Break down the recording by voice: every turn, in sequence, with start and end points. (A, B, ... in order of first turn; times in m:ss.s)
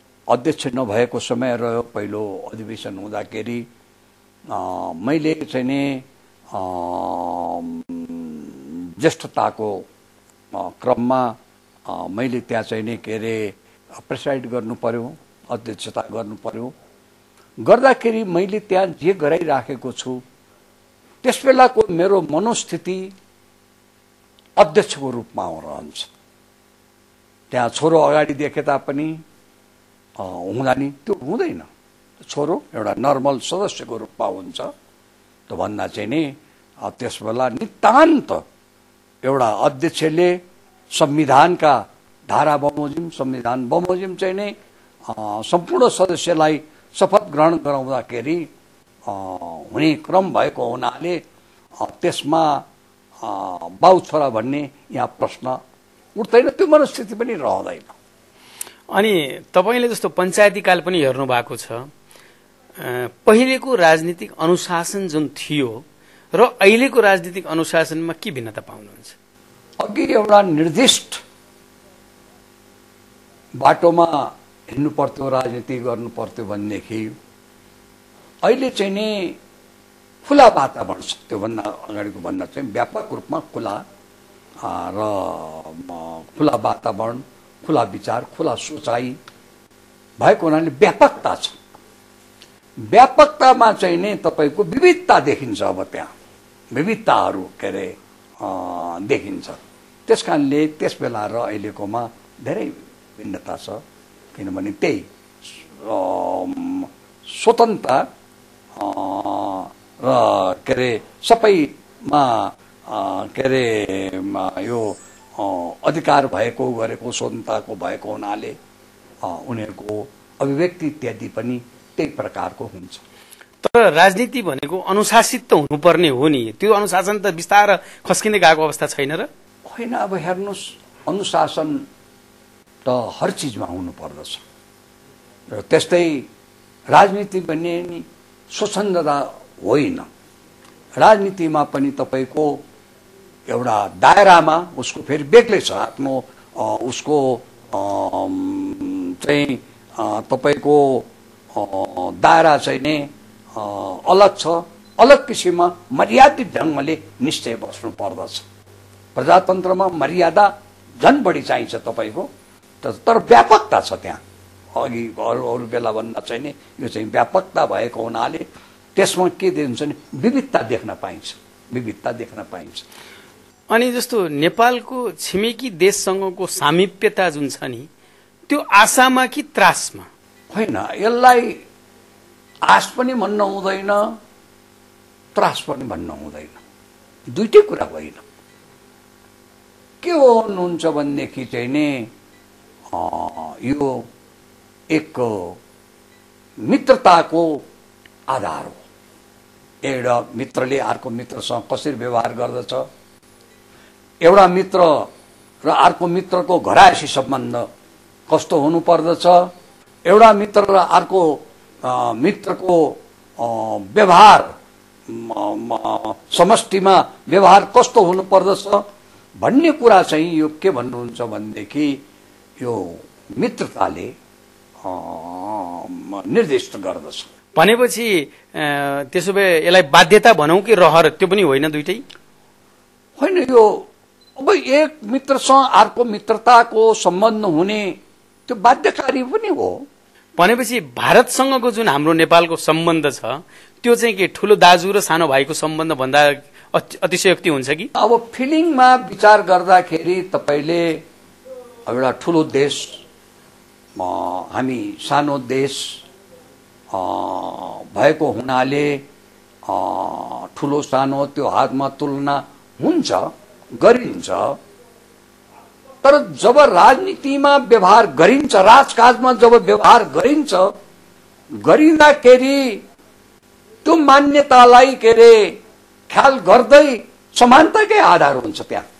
0:00.3-0:03.6 A
0:04.5-0:09.8 A
0:10.5-0:11.4 A
0:11.9-0:16.7 A
0:17.6-0:20.2 A
0:21.2-0:23.1 A
0:24.6-0:26.1 A
0:27.5-0:29.2 A
0:30.2-0:31.7 A
0:32.2-0:34.7 A
0:35.5-0:38.4 A
0:39.2-0:44.5 A
0:45.0-0:48.5 A
0:49.0-0:51.2 A
0:51.8-0:52.6 A
0:53.2-0:55.6 A
0:56.2-0:57.9 A
0:58.9-1:01.9 B
1:02.8-1:05.8 B
1:06.3-1:09.1 B
1:09.8-1:11.2 A
1:13.6-1:17.1 A
1:18.4-1:19.4 A
1:20.2-1:23.8 A
1:24.6-1:29.2 A
1:30.2-1:31.5 A
1:32.8-1:36.1 A
1:36.7-1:43.8 A
1:44.3-1:48.0 A
1:48.8-1:58.6 A
1:59.2-2:03.0 A
2:03.6-2:09.3 B
2:09.6-2:11.8 A
2:12.8-2:14.4 A
2:15.5-2:16.3 A
2:16.9-2:20.1 A
2:21.0-2:22.6 A
2:23.5-2:38.4 A
2:39.1-2:42.3 A
2:42.8-2:44.2 A
2:44.7-2:52.8 A
2:53.7-2:57.9 B
2:58.5-3:00.1 B
3:00.5-3:01.6 A
3:02.6-3:04.0 A
3:05.3-3:06.6 A
3:07.3-3:08.2 A
3:10.0-3:12.1 A
3:12.9-3:14.0 A
3:14.9-3:15.6 A
3:16.6-3:17.6 A
3:18.3-3:18.8 A
3:19.8-3:22.8 A
3:24.2-3:25.1 A
3:25.6-3:27.6 A
3:28.3-3:29.5 A
3:30.0-3:34.5 A
3:35.1-3:38.8 A
3:39.4-3:42.0 A
3:42.6-3:44.1 A
3:44.8-3:47.3 A
3:47.6-3:52.0 B
3:53.2-3:59.8 A
4:00.4-4:07.9 B
4:08.0-4:11.0 A
4:11.8-4:13.0 A
4:14.0-4:16.0 A
4:16.9-4:19.0 A
4:19.6-4:24.6 A
4:26.0-4:30.7 A
4:31.5-4:32.8 A
4:33.8-4:38.8 A